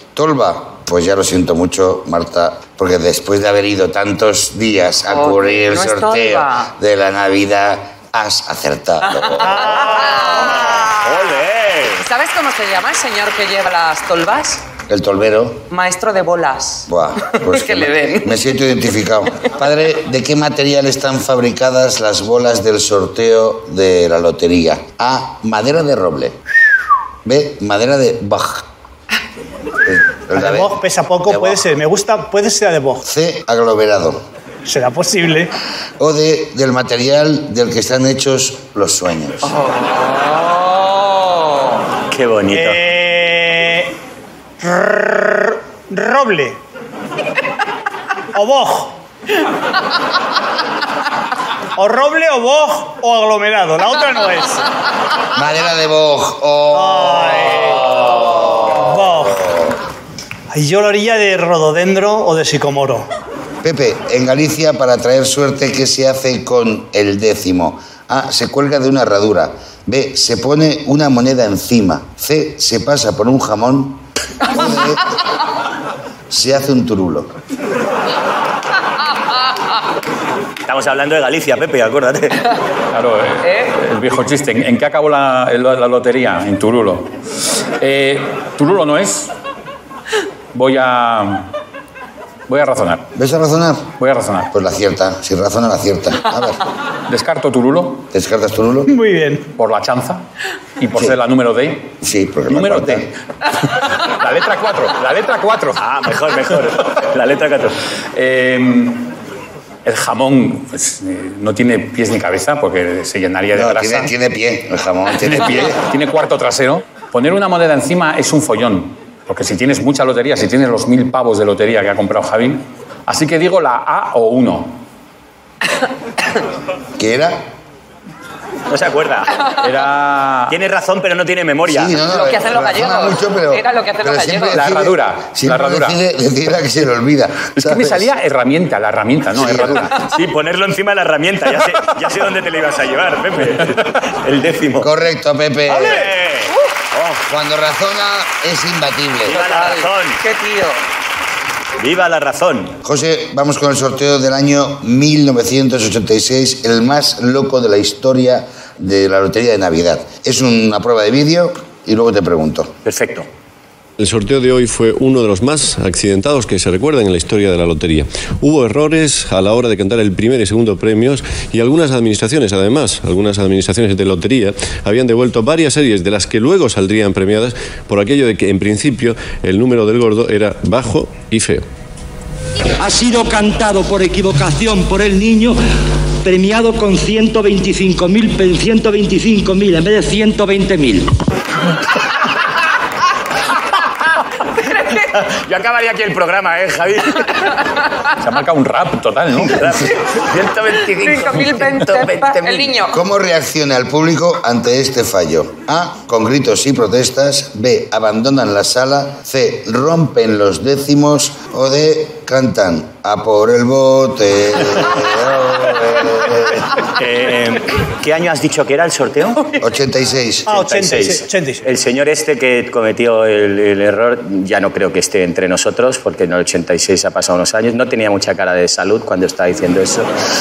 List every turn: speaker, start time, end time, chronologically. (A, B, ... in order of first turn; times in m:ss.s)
0:00.1-0:09.7 A
0:05.1-0:06.7 B
0:09.2-0:11.4 B
0:09.4-0:10.6 C
0:10.2-0:12.0 D
0:12.0-0:14.6 B
0:14.9-0:15.7 A
0:15.7-0:18.4 B
0:16.9-0:26.4 A
0:27.2-0:28.7 A
0:29.8-0:31.6 A
0:30.3-0:33.0 C
0:33.0-0:34.2 A
0:34.6-0:35.5 C
0:36.0-0:39.5 A
0:39.4-0:41.6 B
0:42.1-0:42.8 D
0:42.5-0:43.9 C
0:44.6-0:46.6 C
0:48.3-0:49.0 C
0:51.8-0:54.6 C
0:55.3-0:59.8 A
0:56.7-0:58.1 C
0:58.7-0:59.4 C
1:00.5-1:03.1 C
1:03.6-1:15.0 A
1:16.3-1:17.3 A
1:20.6-1:22.5 D
1:22.9-1:27.1 E
1:27.8-1:29.3 E
1:30.5-1:31.5 E
1:32.5-1:33.1 E
1:33.2-1:33.9 A
1:34.0-1:34.5 E
1:34.5-1:36.6 A
1:37.1-1:38.1 E
1:38.1-1:38.9 A
1:38.9-1:39.5 C
1:39.6-1:40.2 E
1:40.8-1:41.9 E
1:42.0-1:43.1 A
1:42.5-1:45.8 E
1:45.8-1:47.8 D
1:48.1-1:49.1 E
1:49.8-1:54.1 E
1:53.5-1:55.8 A
1:55.2-2:04.8 E
2:07.0-2:07.4 A
2:08.7-2:09.5 D
2:09.6-2:10.6 E
2:10.5-2:12.0 D
2:11.6-2:18.1 A
2:12.0-2:14.6 B
2:14.5-2:16.0 E
2:17.6-2:20.0 E
2:19.4-2:19.9 A
2:19.4-2:24.9 D
2:24.8-2:26.1 A
2:25.7-2:26.1 C
2:25.7-2:27.2 D
2:27.3-2:29.4 A
2:29.3-2:30.2 D
2:29.3-2:30.8 B
2:31.8-2:32.8 D
2:32.8-2:42.7 A
2:42.8-2:43.3 D
2:44.0-3:01.6 F
3:02.8-3:05.6 G
3:06.2-3:11.1 G
3:14.9-3:17.5 D
3:18.2-3:19.9 E
3:19.5-3:22.8 D
3:21.0-3:23.0 B
3:22.9-3:36.8 A
3:36.9-3:39.6 D
3:39.6-3:40.6 A
3:40.5-3:41.6 C
3:40.5-3:50.1 D